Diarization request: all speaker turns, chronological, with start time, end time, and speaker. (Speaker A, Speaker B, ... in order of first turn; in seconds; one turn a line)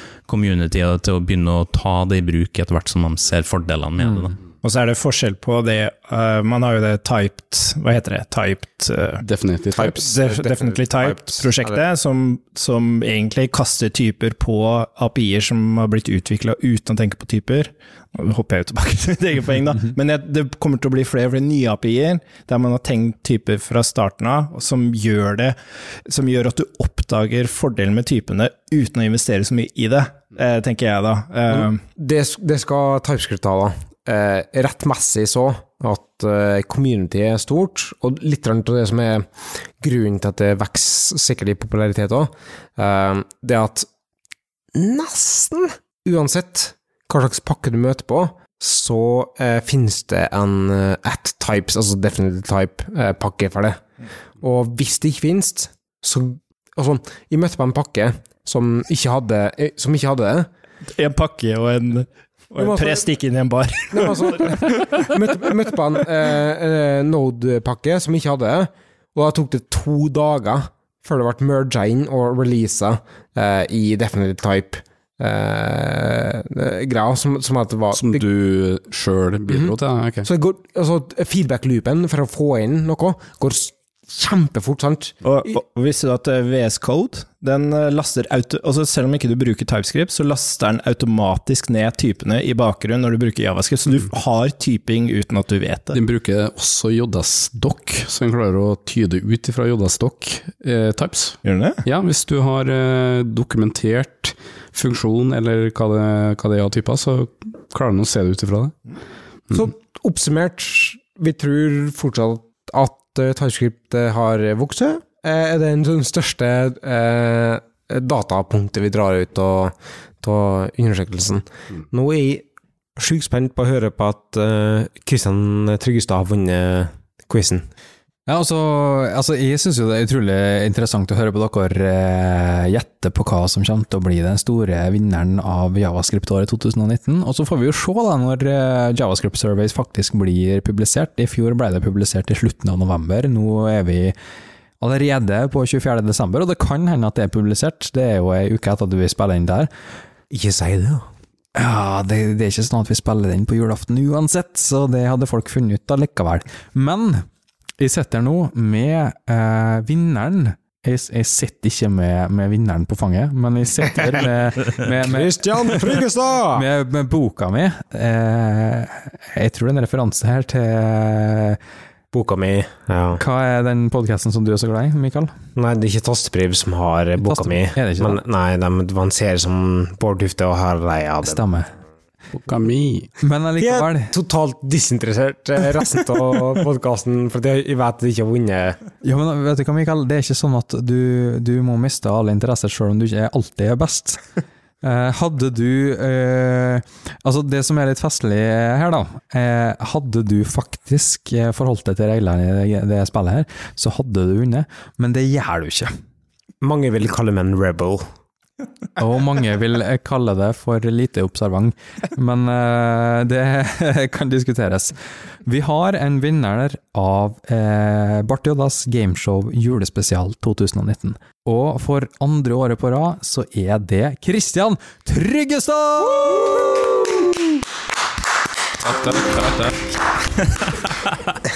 Speaker A: 0.2-4.4
Speaker B: 4.6-9.2
Speaker C: 9.2-10.0
Speaker D: 9.8-11.8
Speaker B: 9.9-31.8
Speaker D: 31.5-39.3
Speaker D: 39.8-43.9
Speaker D: 44.7-53.8
Speaker D: 54.4-60.5
Speaker B: 60.9-64.7
Speaker D: 62.6-63.0
Speaker D: 63.9-78.2
Speaker C: 77.9-80.3
Speaker D: 80.2-85.5
Speaker B: 85.2-96.0
Speaker C: 95.9-108.7
Speaker B: 101.4-101.8
Speaker D: 109.5-127.7
Speaker E: 128.3-144.1
Speaker E: 144.8-149.7
Speaker D: 150.3-151.1
Speaker E: 151.5-157.2
Speaker E: 157.8-165.7
Speaker D: 165.0-166.6
Speaker E: 166.5-171.6
Speaker D: 172.1-173.2
Speaker E: 173.2-175.3
Speaker D: 175.6-181.4
Speaker E: 177.2-178.2
Speaker E: 181.2-181.7
Speaker C: 182.4-183.1
Speaker E: 183.2-184.1
Speaker D: 183.6-188.8
Speaker E: 189.0-194.2
Speaker E: 194.8-205.9
Speaker D: 206.6-208.0
Speaker E: 209.0-226.7
Speaker A: 228.9-229.7